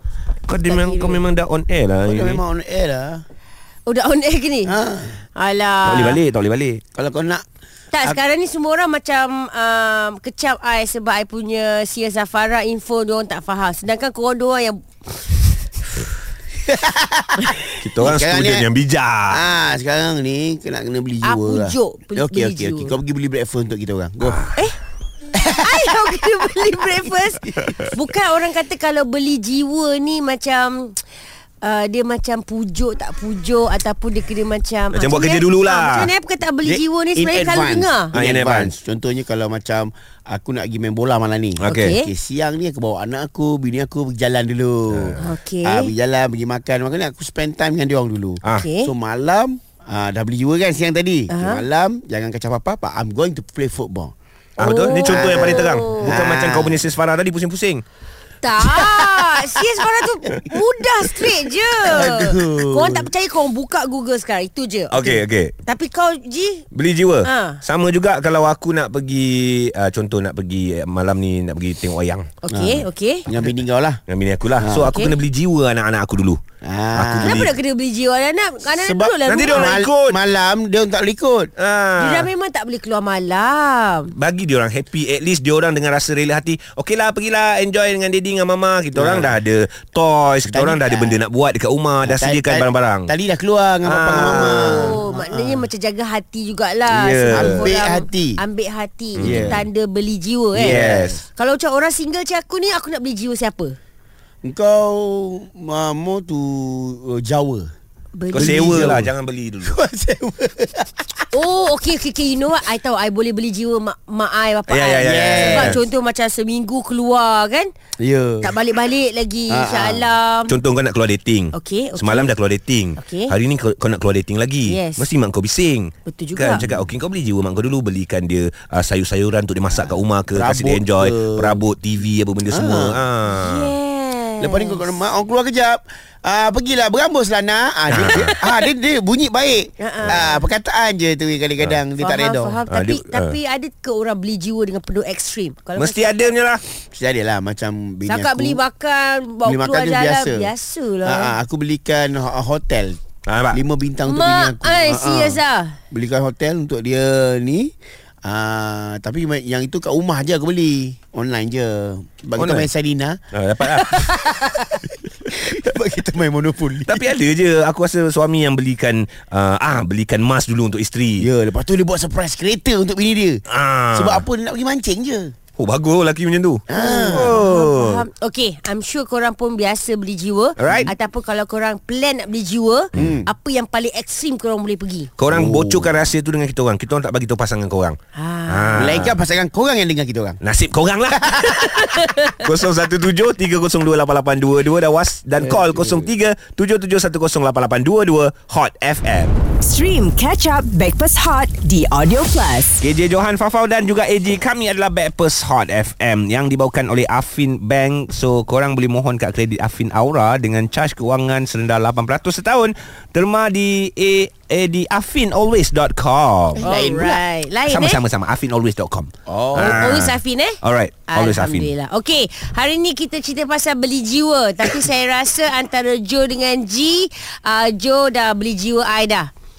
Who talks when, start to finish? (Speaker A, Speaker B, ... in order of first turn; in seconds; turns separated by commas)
Speaker A: 0.5-2.4, Speaker B: 0.6-1.2, Speaker C: 2.0-3.2, Speaker B: 3.9-4.8, Speaker C: 4.7-5.2, Speaker B: 5.3-6.2, Speaker A: 5.8-6.8, Speaker C: 7.0-7.4, Speaker B: 7.9-15.7, Speaker C: 16.7-18.7, Speaker A: 17.8-19.4, Speaker C: 19.3-24.4, Speaker B: 21.2-23.0, Speaker A: 24.2-24.6, Speaker C: 25.4-26.7, Speaker B: 25.4-31.0, Speaker A: 27.6-27.9, Speaker B: 31.6-38.1, Speaker A: 34.9-36.1, Speaker C: 36.6-54.1, Speaker A: 38.1-38.7, Speaker A: 41.6-42.0, Speaker B: 41.7-42.1, Speaker A: 44.9-45.2, Speaker B: 45.2-45.9, Speaker B: 48.5-48.9, Speaker B: 51.3-51.6, Speaker A: 54.6-57.8, Speaker B: 54.6-56.1, Speaker C: 55.0-56.8, Speaker B: 58.4-66.7, Speaker C: 58.6-60.4, Speaker C: 61.8-63.1, Speaker A: 64.9-65.5, Speaker A: 66.7-72.3, Speaker B: 67.2-67.6, Speaker B: 72.4-73.2, Speaker C: 72.5-74.0, Speaker A: 74.1-76.4, Speaker C: 74.6-74.9, Speaker B: 74.9-75.2, Speaker C: 76.6-77.5, Speaker A: 76.9-77.5, Speaker B: 77.2-79.8, Speaker C: 78.7-81.5, Speaker A: 79.3-80.2, Speaker A: 81.6-82.3, Speaker B: 82.0-84.1, Speaker A: 84.1-93.1, Speaker C: 88.9-89.4, Speaker C: 90.5-91.2, Speaker C: 92.0-95.7, Speaker A: 93.9-95.0, Speaker B: 94.3-103.8, Speaker A: 96.9-97.7, Speaker C: 97.3-98.4, Speaker A: 99.2-99.6, Speaker C: 99.2-99.6, Speaker C: 100.5-101.2, Speaker A: 100.5-101.2, Speaker C: 104.4-107.7, Speaker B: 108.2-109.0, Speaker C: 108.3-109.1, Speaker A: 108.3-109.8, Speaker C: 109.6-111.3, Speaker B: 111.3-117.7, Speaker A: 114.7-115.8, Speaker C: 115.1-115.8, Speaker C: 118.0-118.5, Speaker B: 118.4-120.6, Speaker C: 119.5-120.1, Speaker A: 120.5-133.7, Speaker B: 121.5-122.3, Speaker B: 123.0-123.3, Speaker B: 124.7-125.1, Speaker B: 126.1-126.6, Speaker C: 126.6-126.9, Speaker C: 129.7-131.6, Speaker C: 132.5-133.0, Speaker B: 133.3-134.9, Speaker C: 134.4-142.6, Speaker A: 137.9-138.4, Speaker B: 139.8-140.4, Speaker B: 142.0-146.3, Speaker A: 142.7-143.4, Speaker A: 145.8-146.6, Speaker C: 146.9-148.6, Speaker B: 148.1-151.3, Speaker C: 149.4-150.5, Speaker C: 151.0-153.0, Speaker A: 153.3-153.6, Speaker C: 153.5-155.4, Speaker B: 154.0-155.8, Speaker C: 155.9-157.7, Speaker C: 158.2-163.2, Speaker A: 162.4-162.7, Speaker A: 163.3-164.1, Speaker C: 163.8-167.0, Speaker B: 164.2-164.7, Speaker A: 166.9-171.3, Speaker C: 171.2-175.3, Speaker A: 173.5-174.2, Speaker A: 175.6-178.1, Speaker C: 176.7-177.4, Speaker B: 176.8-185.1, Speaker A: 180.6-180.9, Speaker C: 180.7-180.9, Speaker C: 182.9-183.3, Speaker A: 185.2-188.0, Speaker C: 185.3-185.9, Speaker B: 188.2-189.0, Speaker A: 188.5-189.2, Speaker C: 188.8-190.4, Speaker A: 190.4-199.4, Speaker C: 191.2-191.8, Speaker B: 191.8-192.3, Speaker C: 195.4-196.1, Speaker D: 199.7-202.8, Speaker A: 202.8-216.7, Speaker C: 216.6-217.2, Speaker B: 216.6-218.0, Speaker A: 217.7-221.7, Speaker C: 219.3-219.9, Speaker B: 219.6-229.3